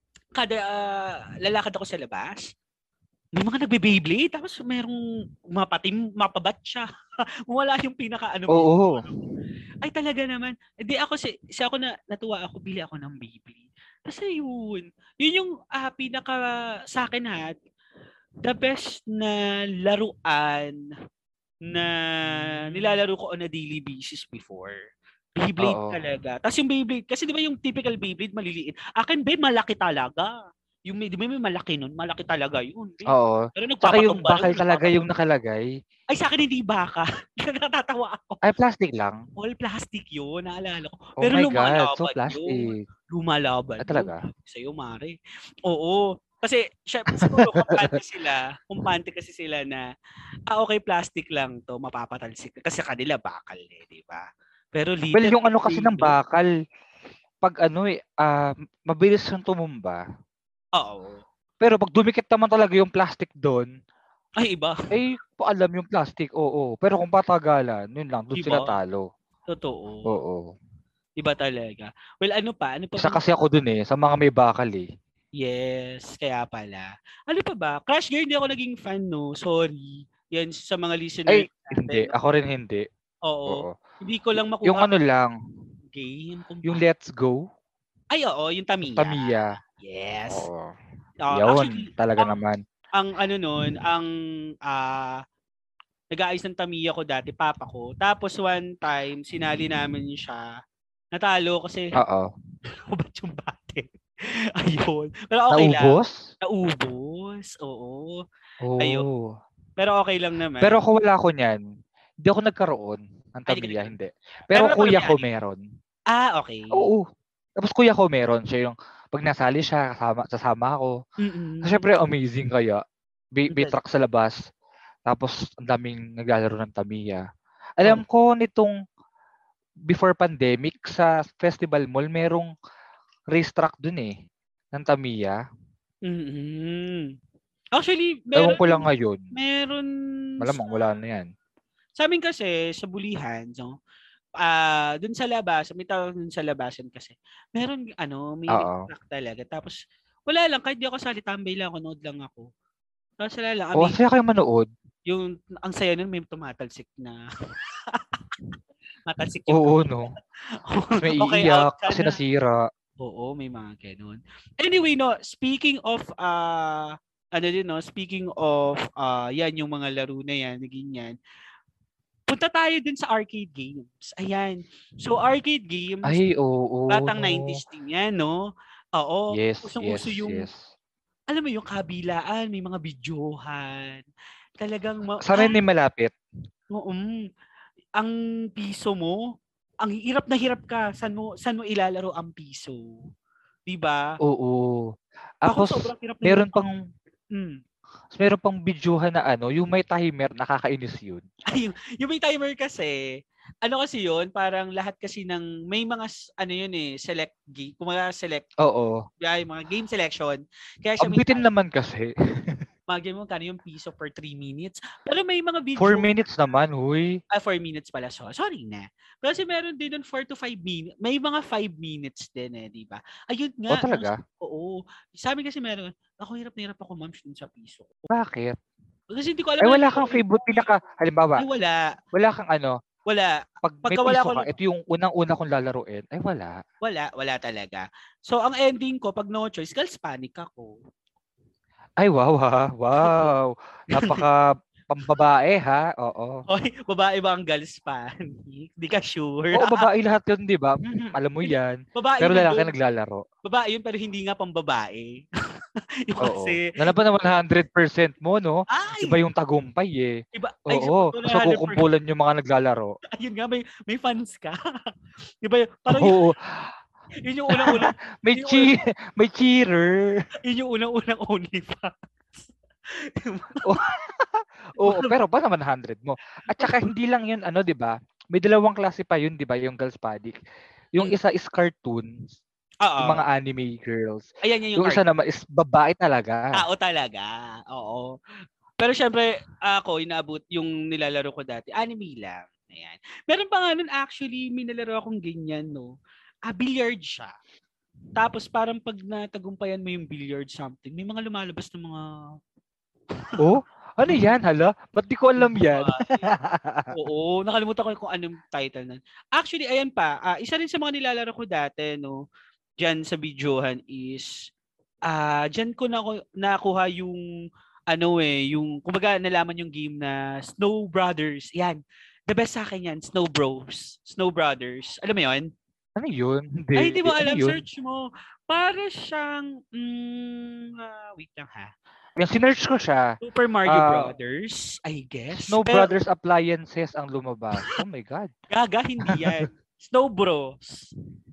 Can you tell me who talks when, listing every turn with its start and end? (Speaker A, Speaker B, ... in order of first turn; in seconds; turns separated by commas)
Speaker A: 0.3-2.5, Speaker A: 3.4-5.0, Speaker A: 5.5-6.9, Speaker A: 7.5-9.3, Speaker B: 8.5-9.0, Speaker A: 9.8-17.5, Speaker A: 18.4-20.8, Speaker A: 21.7-24.8, Speaker B: 22.3-23.0, Speaker A: 25.4-30.3, Speaker B: 25.6-26.0, Speaker A: 30.9-35.0, Speaker B: 33.1-35.7, Speaker A: 36.1-38.4, Speaker B: 38.4-39.2, Speaker A: 39.4-49.9, Speaker B: 41.2-42.8, Speaker B: 43.8-44.2, Speaker B: 47.3-47.9, Speaker A: 50.5-56.1, Speaker B: 55.1-56.5, Speaker B: 57.4-60.0, Speaker A: 60.8-61.2, Speaker B: 61.6-63.7, Speaker A: 64.4-64.8, Speaker B: 64.9-69.1, Speaker A: 68.3-68.8, Speaker A: 69.5-70.1, Speaker B: 70.0-70.5, Speaker A: 71.2-73.2, Speaker B: 73.0-74.9, Speaker A: 75.4-82.1, Speaker B: 81.3-82.8, Speaker A: 83.3-84.9, Speaker B: 83.5-83.8, Speaker B: 84.6-85.3, Speaker A: 85.9-86.8, Speaker B: 86.6-87.4, Speaker A: 88.1-90.5, Speaker B: 88.9-89.5, Speaker B: 90.3-90.7, Speaker A: 91.2-92.3, Speaker B: 91.3-92.6, Speaker A: 92.9-94.1, Speaker A: 94.7-95.2, Speaker A: 96.1-100.4, Speaker A: 101.1-101.9, Speaker B: 102.0-102.3, Speaker A: 102.7-103.9, Speaker A: 104.6-108.2, Speaker B: 105.5-106.2, Speaker B: 108.6-109.3, Speaker A: 108.8-109.0, Speaker A: 109.8-110.8, Speaker B: 110.6-111.6, Speaker B: 112.2-115.6, Speaker A: 113.5-113.9, Speaker A: 114.5-115.3, Speaker A: 116.1-116.9, Speaker B: 116.8-117.0, Speaker B: 117.6-121.0, Speaker A: 121.2-121.8, Speaker B: 121.6-122.8, Speaker B: 123.3-124.4, Speaker A: 123.5-123.8, Speaker B: 125.0-127.2, Speaker B: 127.8-128.7, Speaker B: 129.9-132.5, Speaker B: 133.3-134.1, Speaker B: 134.7-135.4, Speaker A: 136.1-137.1, Speaker A: 137.8-139.9, Speaker B: 138.3-139.2, Speaker A: 140.4-140.9, Speaker B: 140.4-141.3, Speaker A: 142.0-143.7, Speaker A: 144.4-152.5, Speaker B: 148.5-148.9, Speaker A: 153.2-154.0, Speaker B: 153.8-154.7, Speaker A: 155.1-157.2, Speaker A: 159.1-160.1, Speaker B: 159.5-160.1, Speaker A: 160.7-162.2, Speaker B: 161.0-162.6, Speaker A: 163.0-171.1, Speaker A: 172.3-176.2, Speaker B: 176.0-177.6, Speaker A: 176.9-178.3, Speaker A: 178.9-180.5, Speaker B: 179.3-180.6, Speaker A: 181.3-184.0, Speaker A: 184.6-185.6, Speaker B: 185.2-186.1, Speaker A: 186.7-187.3, Speaker A: 188.0-189.2, Speaker A: 189.8-192.8, Speaker A: 193.7-194.0, Speaker B: 194.2-194.9, Speaker B: 195.4-196.8, Speaker A: 195.4-196.6, Speaker A: 197.3-197.6, Speaker B: 198.1-201.2, Speaker A: 201.5-202.9, Speaker A: 203.6-208.5, Speaker B: 208.6-209.0, Speaker A: 209.2-211.5, Speaker B: 211.0-212.6, Speaker A: 212.9-216.1, Speaker B: 215.8-217.2, Speaker A: 217.3-227.9, Speaker B: 223.7-224.2, Speaker B: 228.1-228.6, Speaker A: 229.1-230.7, Speaker B: 229.6-231.4, Speaker A: 231.4-231.9, Speaker B: 232.1-232.8, Speaker A: 233.1-234.5, Speaker B: 233.6-236.6, Speaker A: 236.8-240.8, Speaker B: 242.0-246.4, Speaker A: 243.0-243.3, Speaker A: 244.0-244.2, Speaker A: 246.5-249.8, Speaker B: 249.5-253.2, Speaker A: 250.9-252.7, Speaker A: 253.4-255.2, Speaker A: 256.0-256.7, Speaker B: 256.2-262.9, Speaker A: 258.7-259.2, Speaker A: 260.3-261.8, Speaker A: 263.1-264.6, Speaker A: 265.4-266.1, Speaker B: 265.9-266.7, Speaker A: 267.2-268.8, Speaker B: 267.5-270.3, Speaker A: 270.4-272.5, Speaker A: 273.1-273.8, Speaker B: 273.6-280.4, Speaker A: 274.8-275.1, Speaker A: 276.5-276.8, Speaker B: 280.9-282.4, Speaker A: 282.8-283.2, Speaker B: 283.0-286.6, Speaker A: 284.4-285.0, Speaker A: 286.5-288.1, Speaker A: 288.8-295.9, Speaker A: 296.5-297.3, Speaker A: 298.1-302.1, Speaker B: 303.4-306.9, Speaker A: 304.0-304.3, Speaker A: 305.4-306.3, Speaker A: 306.9-312.2, Speaker A: 312.8-314.3, Speaker A: 315.1-317.2, Speaker A: 317.9-325.5, Speaker B: 326.0-327.6, Speaker A: 326.8-331.7, Speaker B: 332.2-333.1, Speaker A: 333.2-335.9, Speaker B: 333.7-334.1, Speaker B: 335.4-338.3, Speaker A: 338.5-340.9, Speaker B: 339.1-339.4